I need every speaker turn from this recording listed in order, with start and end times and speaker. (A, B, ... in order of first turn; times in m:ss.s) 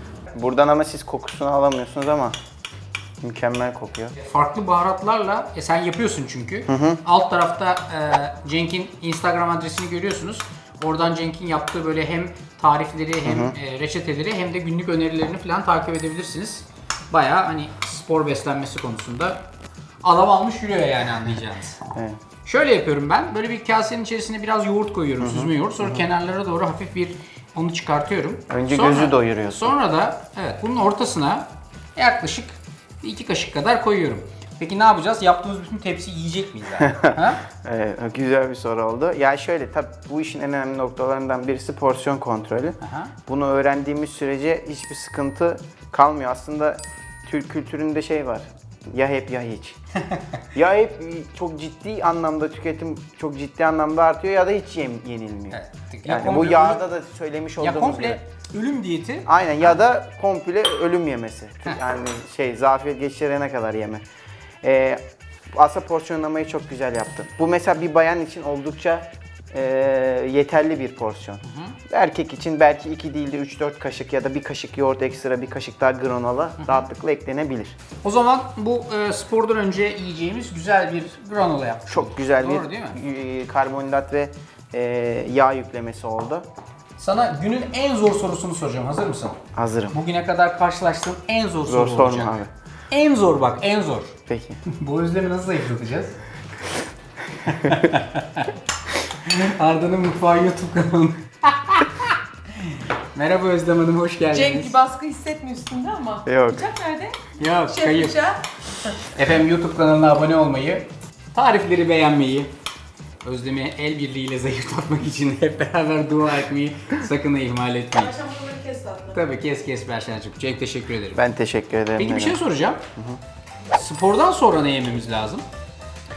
0:00.3-0:02.4 A
0:03.2-0:04.2 A
0:04.2-0:19.4 B
0:06.7-0:07.0 A
0:13.2-0:13.6 A
0:20.0-0:21.8 B
0:21.9-0:22.2 A
0:22.5-0:37.4 B
0:25.2-0:26.0 A
0:28.5-0:29.7 A
0:36.8-0:49.8 A
0:42.8-0:43.1 B
0:50.5-0:58.2 A
0:55.5-0:56.8 B
0:57.6-0:59.3 B
0:59.3-1:04.0 A
1:04.6-1:05.0 A
1:05.5-1:17.7 A
1:11.4-1:11.8 B
1:16.6-1:16.9 B
1:18.0-1:23.0 B
1:21.9-1:26.5 A
1:27.0-1:29.4 B
1:29.5-1:30.0 A
1:29.9-1:32.4 B
1:31.7-1:32.5 A
1:32.9-1:34.2 B
1:34.3-1:34.6 A
1:34.7-1:36.2 B
1:37.4-1:38.5 B
1:37.5-1:37.8 A
1:39.0-1:44.9 B
1:44.6-1:47.2 C
1:46.2-1:46.8 A
1:47.3-1:48.4 B
1:47.9-1:48.4 C
1:49.0-1:52.5 B
1:53.2-1:58.5 B
1:58.3-1:59.1 C
1:59.0-2:01.2 B
2:01.2-2:02.4 A
2:02.0-2:02.8 B
2:02.9-2:03.2 A
2:03.7-2:05.4 B